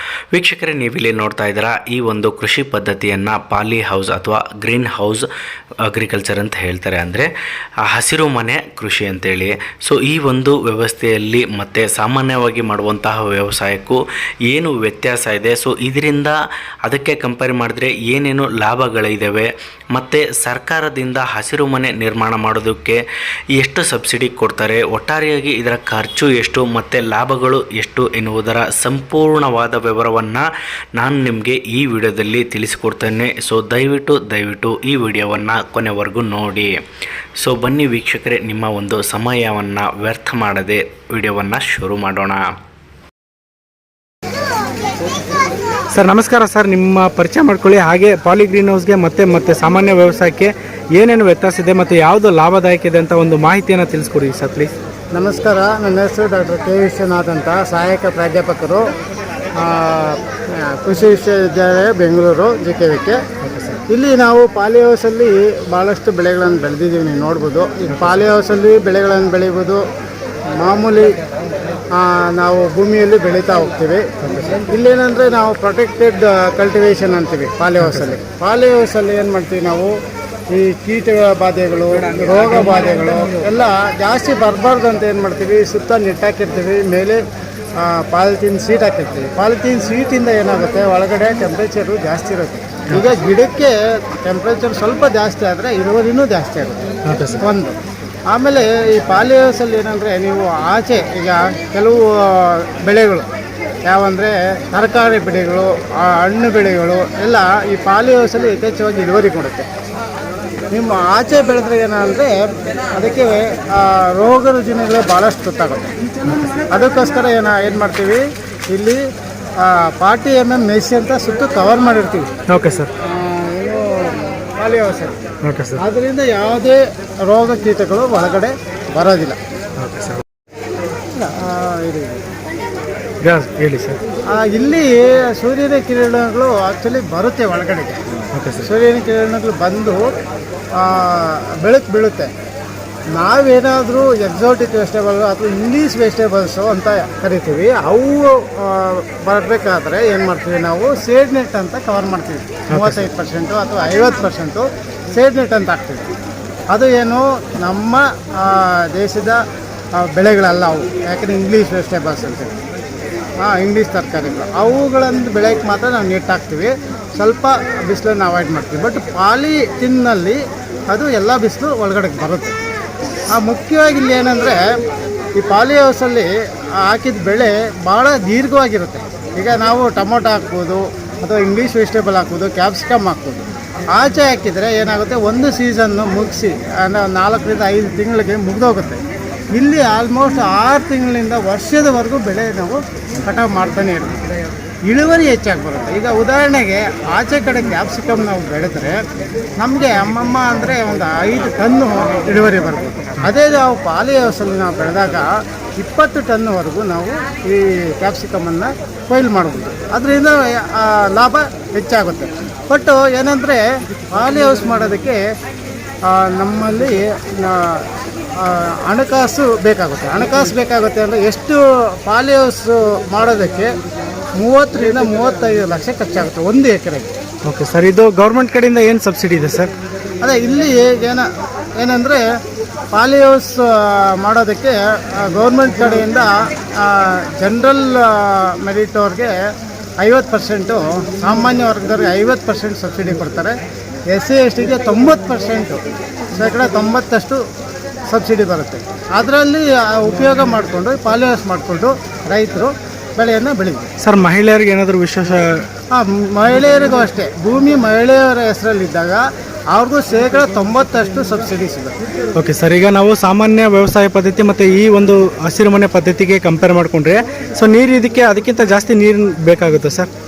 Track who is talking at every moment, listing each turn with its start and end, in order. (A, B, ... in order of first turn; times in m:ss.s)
0:00.3-0:05.3 A
0:05.9-0:07.3 A
0:07.8-0:23.0 A
0:23.6-0:30.4 A
0:31.0-0:36.7 A
0:37.4-0:42.4 A
0:45.9-0:54.7 B
0:55.1-0:58.8 C
0:59.6-1:03.2 C
1:03.4-1:03.8 B
1:03.9-1:09.8 C
1:07.9-1:08.2 B
1:10.6-1:11.2 C
1:12.0-1:14.0 C
1:14.2-1:14.6 B
1:14.7-1:19.9 C
1:17.8-1:18.2 B
1:20.5-1:27.2 C
1:27.8-1:36.8 C
1:32.9-1:33.2 B
1:37.1-1:37.4 B
1:37.4-1:37.8 C
1:38.3-1:43.3 C
1:43.9-1:49.7 C
1:50.7-1:52.3 C
1:52.9-1:55.9 C
1:56.7-1:58.2 C
1:58.7-1:59.0 C
1:59.6-2:02.3 C
2:02.5-2:02.9 B
2:03.1-2:05.2 C
2:05.4-2:05.8 B
2:05.8-2:09.4 C
2:09.8-2:10.2 B
2:11.2-2:12.2 C
2:13.2-2:14.0 B
2:14.3-2:18.0 C
2:18.4-2:18.7 B
2:18.6-2:20.1 C
2:20.8-2:22.3 C
2:23.1-2:36.1 C
2:32.7-2:33.1 B
2:36.7-2:39.4 C
2:40.0-2:42.6 C
2:43.4-2:50.4 C
2:50.9-2:52.5 C
2:53.3-2:54.6 C
2:55.4-2:56.3 C
2:56.8-3:03.4 C
3:03.9-3:09.0 C
3:09.6-3:14.2 C
3:14.9-3:19.0 C
3:19.6-3:25.3 C
3:25.8-3:35.2 C
3:36.1-3:37.8 C
3:38.4-3:43.7 C
3:44.4-3:47.1 C
3:47.4-3:49.7 B
3:50.2-3:51.2 C
3:51.8-3:52.2 C
3:52.9-3:59.3 C
4:00.0-4:03.5 C
4:04.1-4:05.8 C
4:06.3-4:07.4 C
4:08.1-4:13.9 C
4:14.0-4:15.6 B
4:15.9-4:22.0 C
4:22.4-4:30.1 B